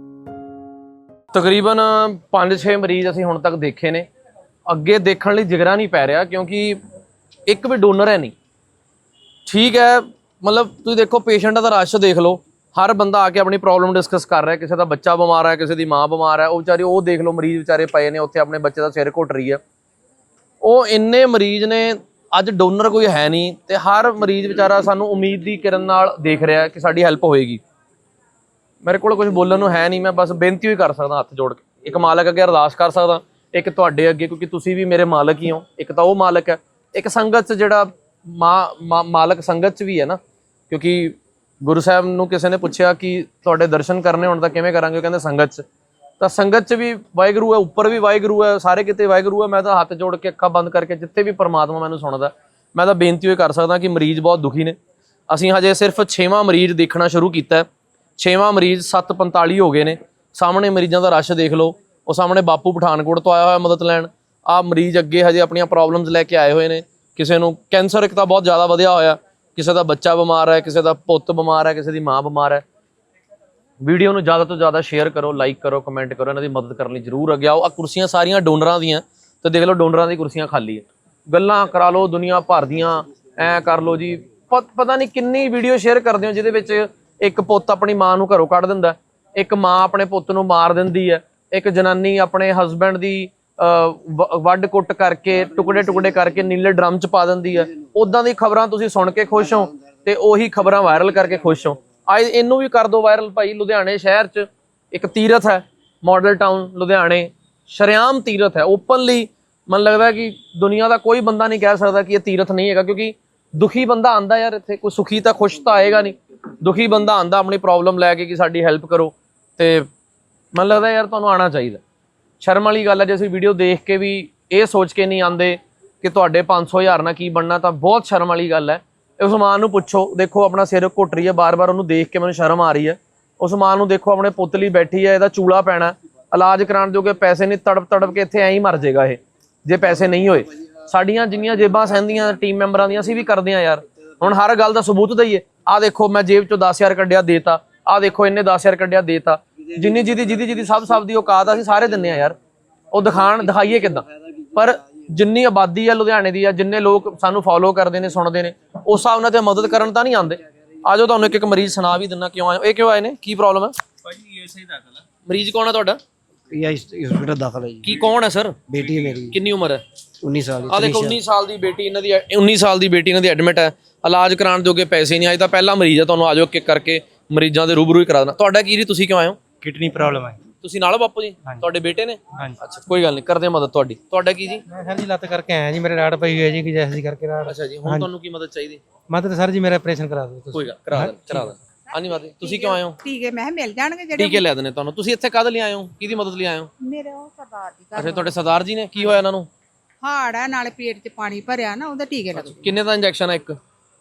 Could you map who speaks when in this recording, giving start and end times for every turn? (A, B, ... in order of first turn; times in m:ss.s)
0:01.3-0:04.0 A
0:04.7-0:06.8 A
0:07.5-0:08.3 A
0:09.4-0:19.6 A
0:20.6-0:27.6 A
0:28.8-0:45.6 A
0:46.2-0:54.8 A
0:55.3-1:12.6 A
1:13.8-1:59.9 A
2:00.5-2:01.8 A
2:02.4-2:32.4 A
2:32.9-2:46.0 A
2:46.5-2:48.0 B
2:47.8-2:49.8 A
2:48.7-2:49.4 B
2:50.2-2:51.2 B
2:50.7-2:59.4 A
2:59.6-3:00.4 C
3:00.6-3:04.6 A
3:04.7-3:08.1 C
3:07.4-3:08.8 A
3:09.1-3:11.5 C
3:10.5-3:13.0 A
3:12.4-3:14.4 D
3:14.1-3:16.7 A
3:16.8-3:18.3 D
3:17.9-3:19.5 A
3:20.0-3:22.7 D
3:22.4-3:23.6 A